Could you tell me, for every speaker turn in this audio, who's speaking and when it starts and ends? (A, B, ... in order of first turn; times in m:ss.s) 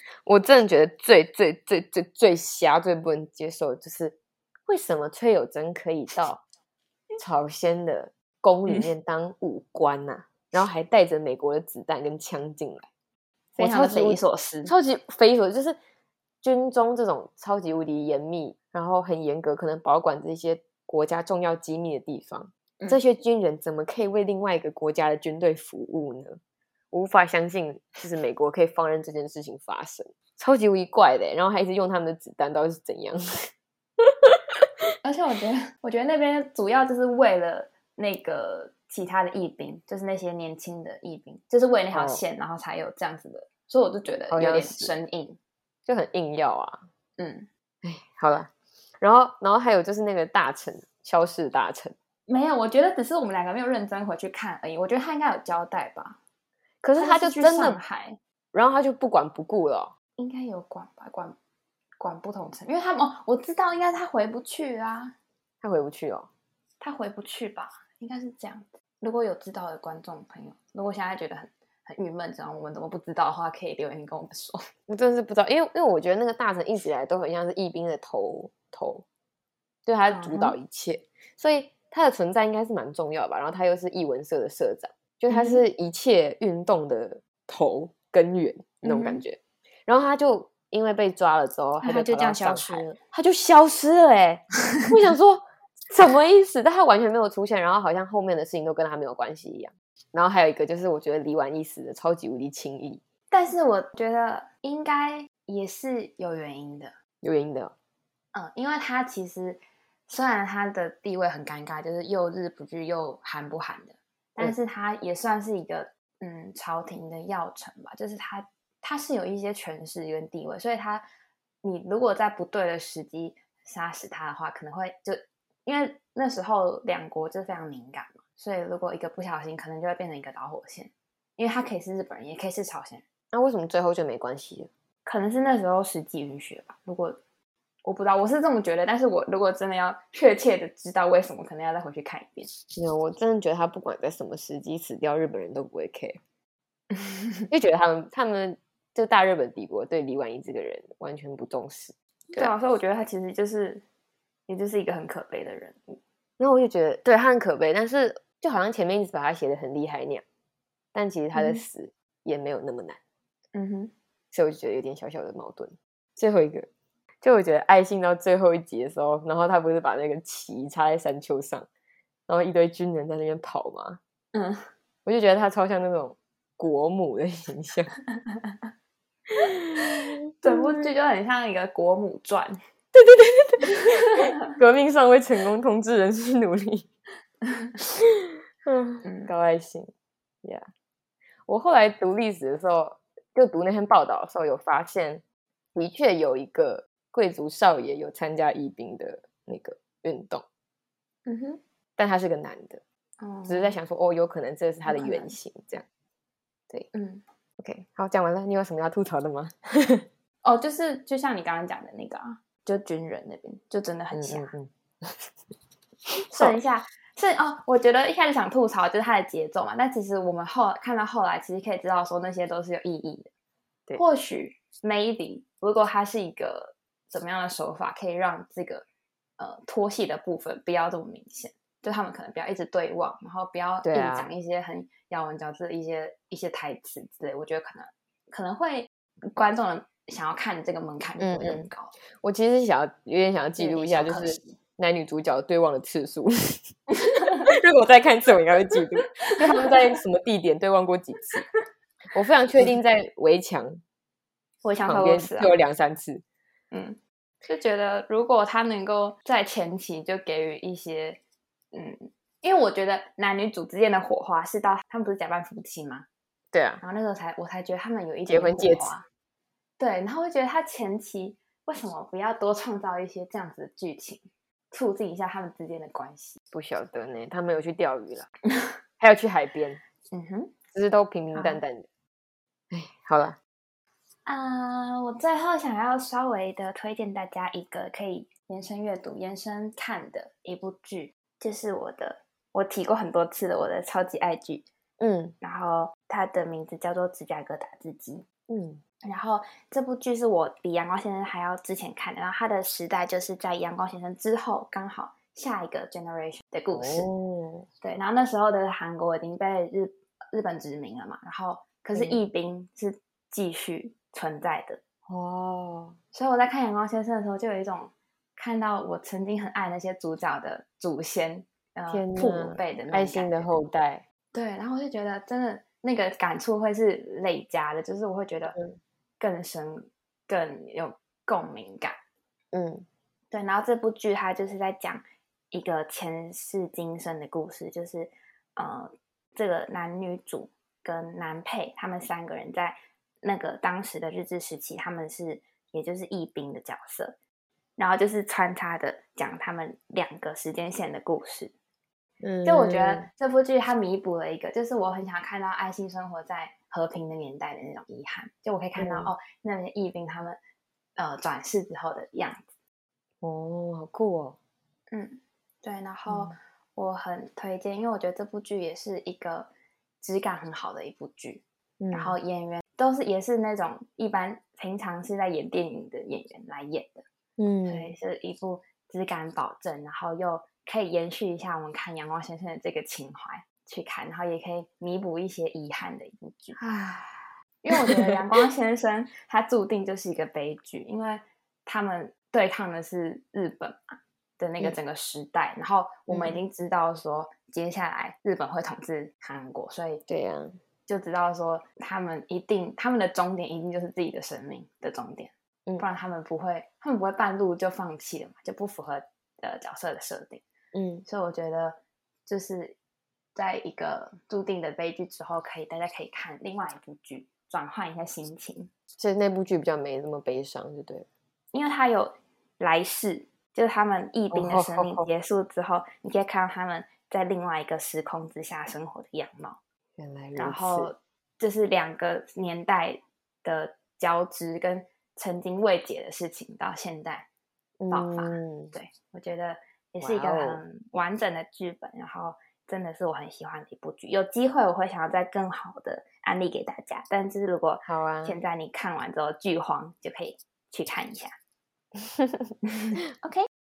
0:00.2-0:06.4 A
0:07.2-0:12.9 A
0:13.5-0:15.8 A
0:13.6-0:14.7 B
0:16.4-0:26.4 A
0:26.9-0:33.5 A
0:34.0-0:34.6 A
0:35.0-0:45.4 B
0:41.9-0:42.2 A
0:44.3-0:44.9 A
0:45.8-0:46.8 A
0:47.2-0:47.5 B
0:47.8-0:51.9 A
0:52.3-0:56.2 B
0:56.8-0:57.8 A
0:57.0-0:58.2 B
0:58.5-0:59.9 A
1:00.2-1:01.4 B
1:02.0-1:05.1 B
1:05.6-1:06.3 A
1:06.8-1:14.6 B
1:14.9-1:19.0 A
1:19.8-1:43.0 A
1:20.1-1:20.6 B
1:25.3-1:25.6 B
1:28.8-1:29.2 B
1:31.8-1:33.0 B
1:43.3-1:46.9 B
1:47.2-1:47.7 A
1:48.3-2:01.0 B
2:01.6-2:13.0 B
2:13.3-2:14.7 A
2:15.0-2:17.2 B
2:17.8-2:22.5 B
2:22.7-2:26.2 A
2:26.9-2:27.5 B
2:27.5-2:32.5 A
2:32.3-2:33.8 B
2:34.5-2:36.0 B
2:36.4-2:40.2 A
2:40.9-2:43.0 A
2:41.3-2:41.6 B
2:43.5-2:43.9 B
2:44.3-2:46.7 A
2:47.2-2:51.7 A
2:52.3-2:54.0 A
2:54.3-2:54.7 B
2:55.0-2:57.9 A
2:59.5-3:00.8 A
3:00.4-3:02.6 B
3:02.9-3:06.9 A
3:03.8-3:04.1 B
3:08.0-3:09.9 A
3:09.0-3:09.3 B
3:11.5-3:15.2 A
3:15.7-3:20.4 A
3:21.2-3:21.6 B
3:22.0-3:22.8 A
3:23.2-3:23.8 B
3:23.5-3:25.8 A
3:24.9-3:25.4 B
3:26.9-3:27.2 B
3:27.6-3:30.0 A
3:30.4-3:34.5 B
3:34.1-3:35.3 A
3:36.3-3:36.6 A
3:36.4-3:43.3 B
3:43.9-3:48.8 B
3:49.4-4:01.9 B
3:53.8-3:54.3 A
4:01.2-4:01.7 A
4:02.2-4:06.7 A
4:03.6-4:04.6 B
4:06.9-4:07.5 B
4:07.5-4:11.4 A
4:09.2-4:09.8 B
4:12.1-4:13.8 A
4:14.6-4:15.5 B
4:14.8-4:16.2 A
4:16.7-4:21.2 B
4:21.7-4:26.0 B
4:26.5-4:26.8 A
4:26.8-4:29.0 B
4:28.3-4:28.9 A
4:29.8-4:36.4 B
4:36.5-4:38.3 A
4:39.0-4:39.8 A
4:40.1-4:40.5 B
4:40.7-4:41.8 A
4:41.3-4:41.6 B
4:42.7-4:43.4 A
4:44.2-4:54.6 B
4:55.0-4:55.3 A
4:55.4-4:58.2 B
4:58.5-4:58.8 A
4:59.0-5:07.1 B
5:06.7-5:07.7 A
5:07.8-5:14.8 B
5:11.9-5:12.2 A
5:15.1-5:16.0 A
5:16.1-5:23.5 B
5:21.9-5:24.0 A
5:24.3-5:28.6 B
5:29.2-5:32.0 B
5:32.5-5:32.9 A
5:33.3-5:47.2 B
5:47.8-5:51.5 B
5:52.2-5:53.1 A
5:52.4-6:00.4 B
5:58.8-5:59.1 A
6:01.0-6:02.4 B
6:03.2-6:04.4 A
6:04.9-6:09.5 B
6:06.1-6:06.4 A
6:10.0-6:17.0 B
6:11.8-6:12.2 A
6:17.4-6:17.9 A
6:17.6-6:26.6 B
6:26.6-6:28.2 A
6:27.6-6:40.0 B
6:36.1-6:36.4 A
6:40.1-6:40.6 A
6:40.9-6:50.4 B
6:50.7-6:51.0 A
6:51.0-6:52.8 B
6:53.4-6:58.7 B
6:59.0-7:01.1 A
7:01.5-7:09.6 B
7:04.3-7:05.1 A
7:10.0-7:10.9 A
7:10.4-7:17.3 B
7:17.8-7:18.7 A
7:17.9-7:31.3 B
7:20.0-7:20.6 A
7:27.8-7:28.4 A
7:32.1-7:32.5 A
7:32.7-7:33.5 B